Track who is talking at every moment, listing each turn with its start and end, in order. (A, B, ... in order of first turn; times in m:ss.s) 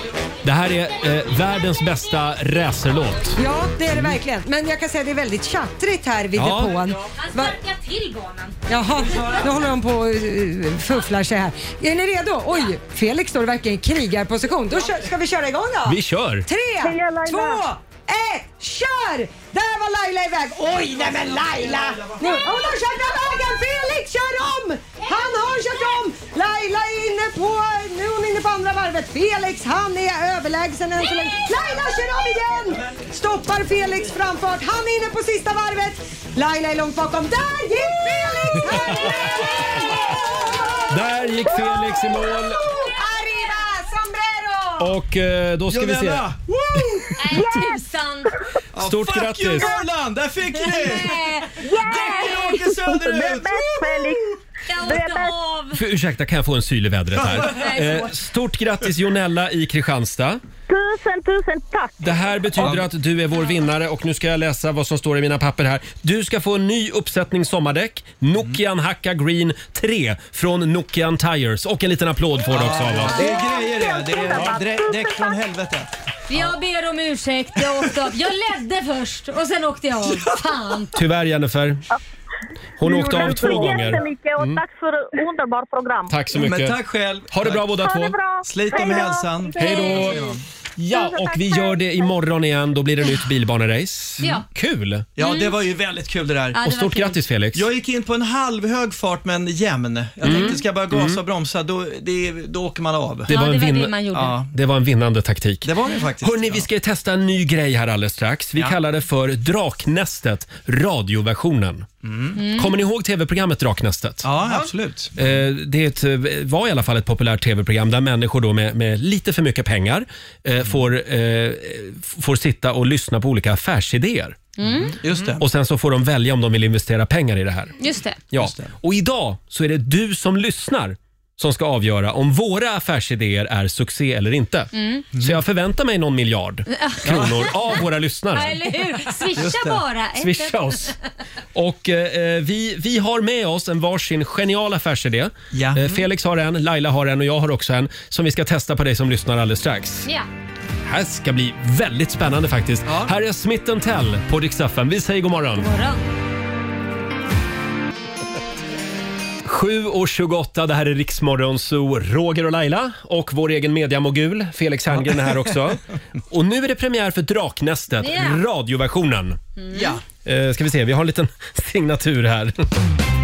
0:00.4-0:03.4 A
0:03.4-0:07.6 B
0:06.4-0:06.8 A
0:07.2-0:08.6 C
0:08.7-0:40.9 B
0:15.9-0:16.5 A
0:16.8-0:17.6 D
0:40.9-0:42.7 A
0:41.5-0:45.0 B
0:44.8-0:46.2 A
0:45.7-0:47.5 E
0:47.2-0:48.3 C
0:47.4-0:47.8 D
0:48.7-0:54.4 E
0:48.8-0:49.8 A
0:50.6-0:52.6 C
0:51.6-0:55.4 D
0:54.7-0:55.8 C
0:55.7-1:00.4 A
0:57.2-0:57.5 E
0:57.4-0:58.2 C
1:00.7-1:02.3 D
1:02.0-1:13.2 A
1:02.6-1:02.9 E
1:12.5-1:16.5 E
1:13.1-1:13.6 C
1:13.2-1:15.4 D
1:16.3-1:21.0 C
1:21.0-1:21.8 A
1:22.8-1:24.6 A
1:22.8-1:26.2 D
1:23.4-1:23.8 E
1:26.1-1:26.8 A
1:26.3-1:27.7 E
1:27.3-1:28.2 A
1:27.8-1:30.2 D
1:28.4-1:30.4 E
1:29.6-1:30.2 A
1:30.8-1:35.1 A
1:30.9-1:32.1 D
1:34.2-1:34.5 C
1:35.2-1:36.6 E
1:35.2-1:35.6 C
1:36.5-1:37.2 C
1:36.6-1:37.7 A
1:37.5-1:43.3 E
1:40.2-1:41.2 A
1:40.3-1:40.6 C
1:43.3-1:44.4 C
1:43.3-1:51.9 A
1:44.2-1:44.5 E
1:45.6-1:46.7 E
1:52.0-1:52.4 E
1:52.4-1:52.7 C
1:52.6-1:54.3 A
1:54.2-1:55.1 E
1:55.2-2:04.5 A
2:04.6-2:04.9 C
2:04.8-2:05.4 E
2:05.1-2:07.8 A
2:07.8-2:08.2 C
2:08.3-2:18.6 A
2:08.4-2:08.7 E
2:14.8-2:15.0 C
2:16.7-2:17.5 C
2:17.0-2:17.5 E
2:18.3-2:20.9 C
2:19.4-2:19.8 E
2:20.2-2:21.0 A
2:21.6-2:30.1 A
2:25.5-2:26.0 E
2:30.8-2:35.7 A
2:32.8-2:33.1 E
2:35.6-2:36.0 C
2:39.4-2:49.4 A
2:45.0-2:45.5 E
2:48.0-2:48.4 C
2:49.6-2:49.9 C
2:49.7-2:50.0 E
2:50.2-2:52.6 A